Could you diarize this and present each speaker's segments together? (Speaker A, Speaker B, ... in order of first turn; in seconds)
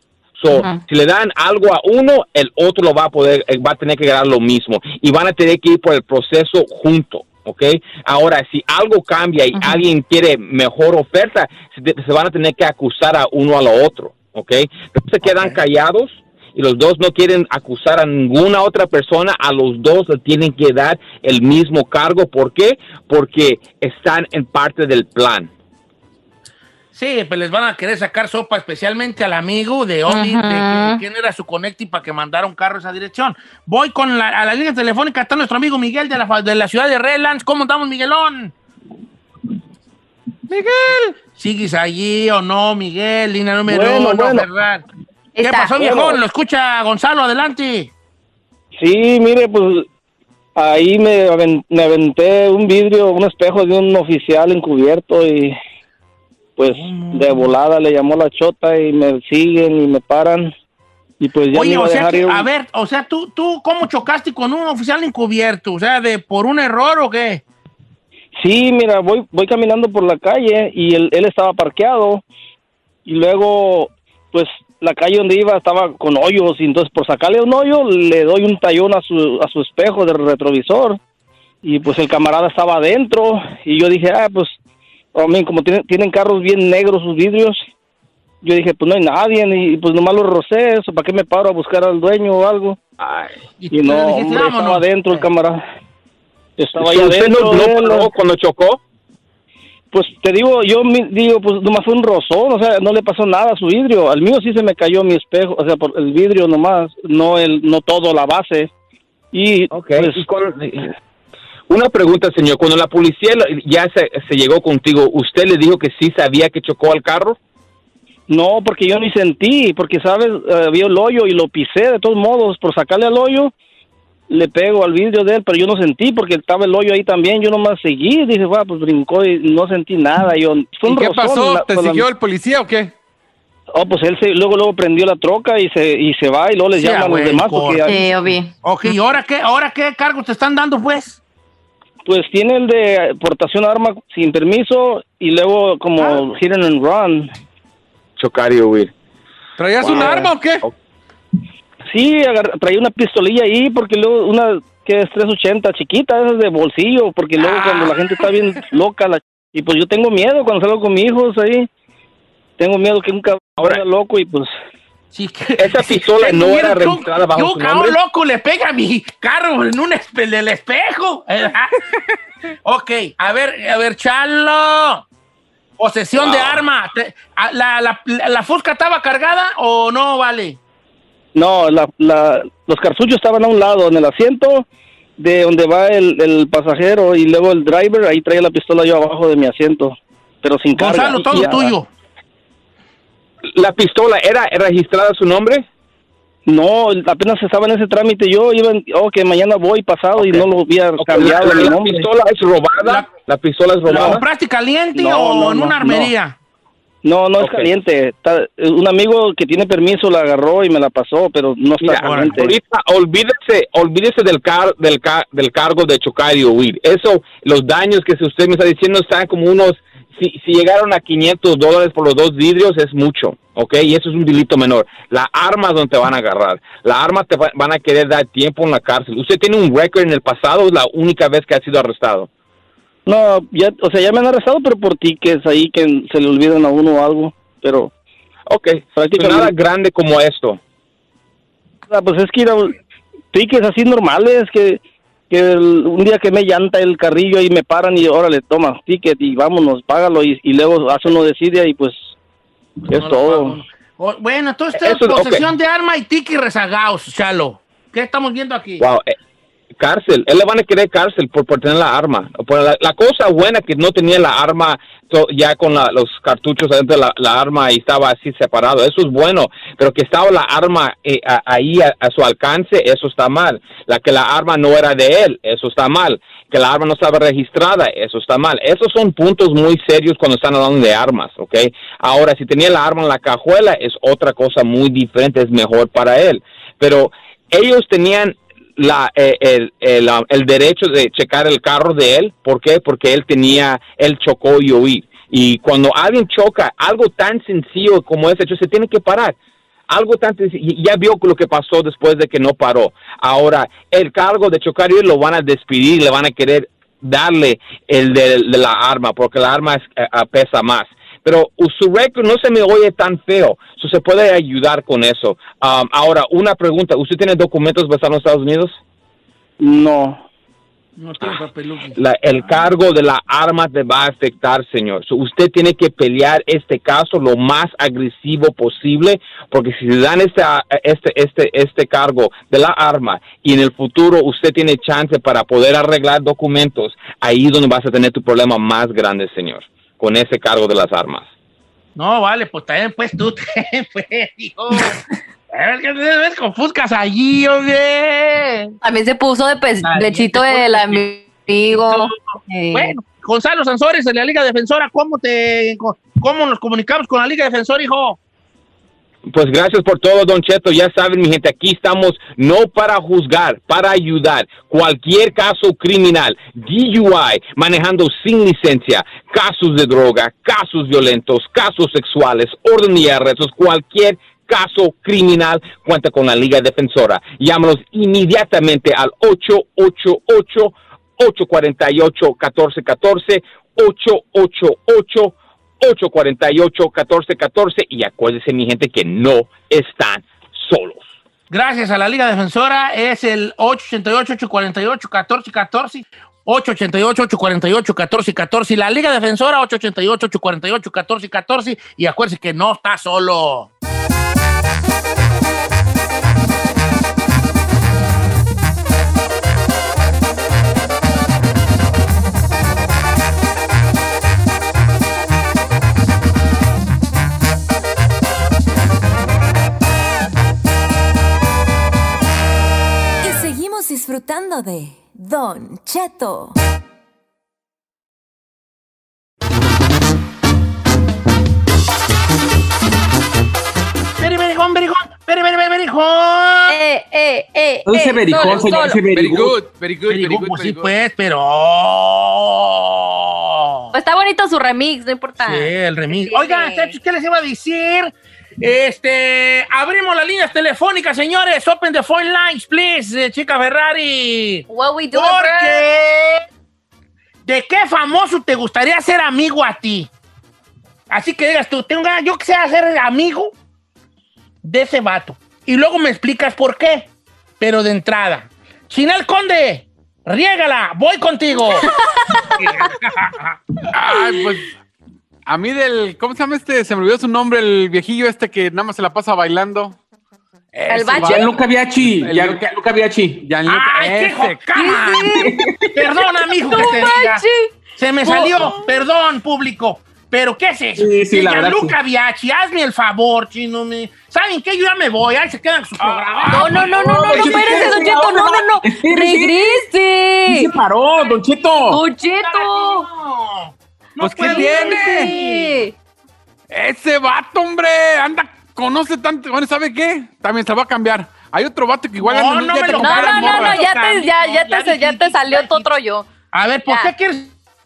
Speaker A: 0.4-25.5, 93.0-93.3, 96.8-98.8, 109.7-110.9, 111.7-117.4, 148.2-148.9, 149.8-150.7, 165.6-168.0, 176.2-176.6, 193.5-195.7, 200.2-200.4, 201.0-204.2, 207.4-207.7, 211.8-232.3, 238.5-240.6, 254.8-255.4, 258.8-259.1, 259.8-299.4, 299.9-318.8, 321.9-341.2, 359.3-391.1
Speaker B: 0.5-0.8, 9.5-9.8, 30.1-31.0, 45.4-45.8, 137.8-138.5, 348.8-352.9, 436.7-439.0, 443.9-446.9, 454.7-455.8, 471.7-472.6, 480.9-481.5, 484.7-485.6, 486.2-487.7, 488.2-488.7, 496.5-500.7, 501.9-503.1, 504.4-505.9, 513.0-516.3, 516.9-517.1
Speaker C: 15.2-15.6, 26.9-38.5, 41.4-44.9, 45.4-47.9, 56.6-57.5, 61.5-67.4, 93.6-95.2, 136.8-137.8, 138.6-141.2, 165.1-171.8, 172.6-175.0, 175.8-180.6, 190.8-191.9, 202.8-203.1, 203.9-206.3, 212.0-212.4, 252.9-258.8, 321.0-322.0, 341.9-348.8, 349.8-351.0, 351.7-352.2, 352.7-358.2, 391.5-403.7, 434.2-436.8, 440.1-443.9, 445.4-456.4, 457.4-460.1, 461.1-463.5, 464.6-467.1, 467.6-471.9, 472.5-473.6, 483.7-487.4, 488.0-498.1, 502.4-505.9, 512.2-515.9, 516.5-517.5
Speaker D: 40.5-41.1, 130.9-132.9, 149.6-150.6, 157.4-157.9, 438.4-440.9, 473.9-474.7, 475.4-480.0, 480.7-482.7, 483.4-484.6, 496.0-496.9, 504.2-505.4, 506.7-513.8
Speaker E: 43.6-44.5, 45.8-46.2, 48.8-49.9, 50.5-55.5, 56.6-60.5, 61.2-62.5, 68.4-72.2, 73.0-81.0, 81.6-84.5, 85.1-87.6, 88.4-92.8, 93.7-95.6, 96.6-98.1, 99.9-108.7, 109.3-110.2, 118.3-123.5, 124.3-132.0, 133.7-138.2, 142.1-147.3, 151.9-161.7, 162.6-164.5, 181.4-184.7, 185.2-191.8, 196.5-202.1, 204.9-206.1, 207.0-212.5, 233.1-237.9, 238.9-239.5, 241.9-242.8, 243.3-252.1, 252.9-253.6, 319.6-320.2
Speaker F: 423.2-426.6
Speaker G: 437.9-439.6, 481.2-483.4, 485.5-485.9, 491.0-491.9, 496.9-499.8, 500.5-502.0